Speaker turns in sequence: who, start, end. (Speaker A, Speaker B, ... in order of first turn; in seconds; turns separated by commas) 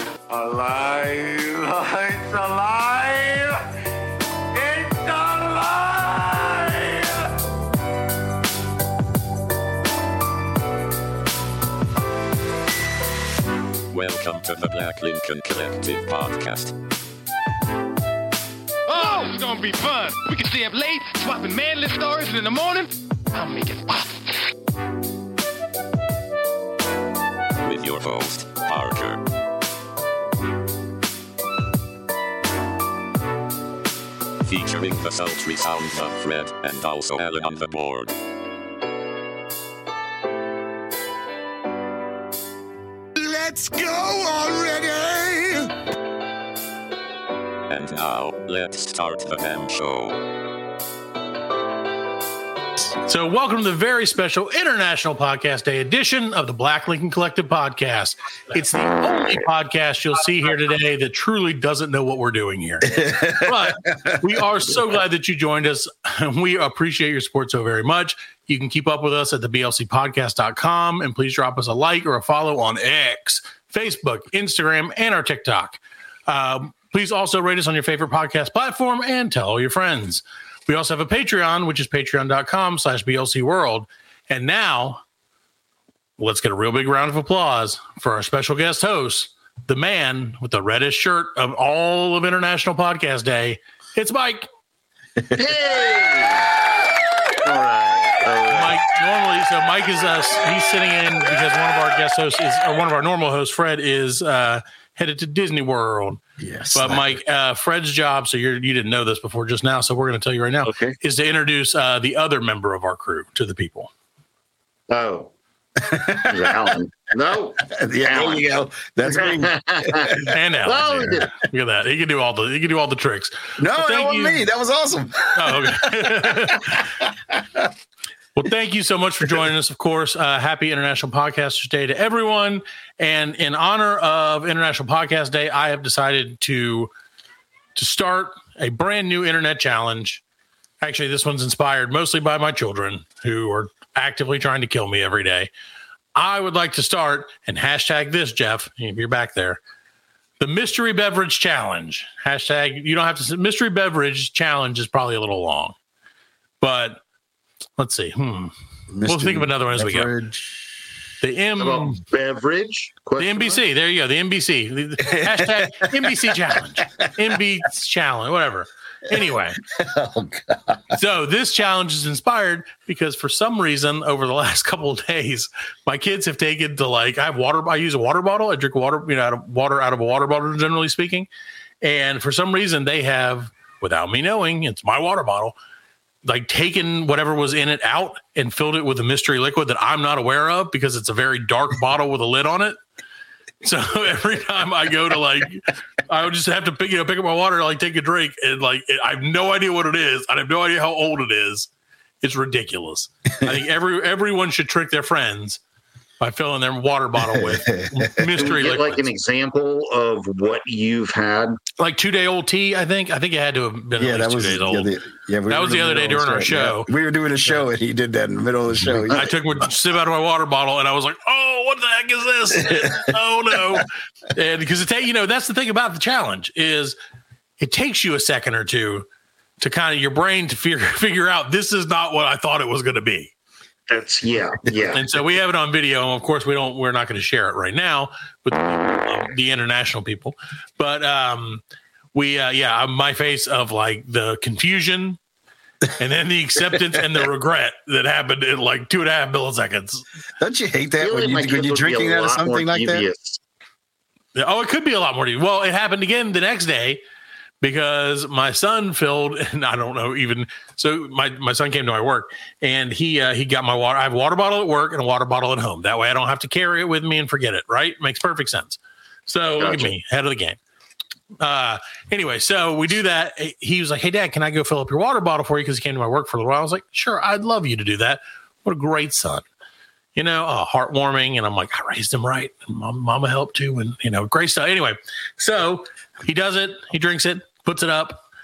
Speaker A: 0.3-3.5, Speaker A: 4.7-7.0, Speaker B: 13.9-16.8, Speaker C: 18.9-24.3, Speaker B: 27.6-29.2, Speaker B: 34.4-38.1, Speaker D: 43.2-45.7, Speaker B: 47.7-50.2, Speaker E: 53.0-85.0, Speaker A: 62.9-64.4, Speaker E: 86.2-94.5, Speaker F: 95.3-96.5, Speaker F: 97.4-98.8, Speaker E: 98.5-106.2, Speaker A: 106.4-107.2, Speaker E: 106.7-113.9, Speaker F: 110.6-111.0, Speaker F: 114.9-115.3, Speaker A: 115.8-116.8, Speaker F: 116.2-121.3, Speaker A: 117.6-121.1, Speaker E: 120.2-124.5, Speaker A: 123.6-127.7, Speaker E: 125.3-126.8, Speaker E: 128.3-136.9, Speaker E: 137.7-140.2, Speaker E: 140.8-145.5, Speaker E: 146.1-149.6, Speaker E: 150.4-155.7, Speaker E: 156.6-157.0, Speaker E: 157.8-158.5, Speaker A: 158.9-160.7, Speaker E: 159.1-160.1, Speaker E: 161.2-162.0, Speaker F: 161.6-163.6, Speaker E: 163.2-169.6, Speaker A: 165.0-166.2, Speaker A: 169.6-170.8, Speaker E: 170.9-181.3, Speaker E: 181.8-185.5, Speaker E: 186.2-192.8, Speaker E: 193.6-201.7, Speaker E: 202.2-205.6, Speaker E: 206.2-209.0, Speaker A: 207.2-208.2, Speaker F: 208.4-211.6, Speaker E: 211.8-214.9, Speaker A: 214.0-219.4, Speaker E: 215.5-216.9, Speaker E: 218.9-226.9, Speaker A: 222.5-223.1, Speaker E: 227.6-229.1, Speaker E: 229.6-233.3, Speaker F: 233.9-235.1, Speaker E: 234.9-241.6, Speaker E: 242.1-245.2, Speaker E: 245.9-250.0, Speaker A: 250.4-253.0, Speaker F: 251.0-253.4, Speaker E: 254.3-257.0, Speaker E: 257.6-270.6, Speaker F: 269.6-269.9, Speaker E: 271.4-279.4, Speaker E: 280.1-288.2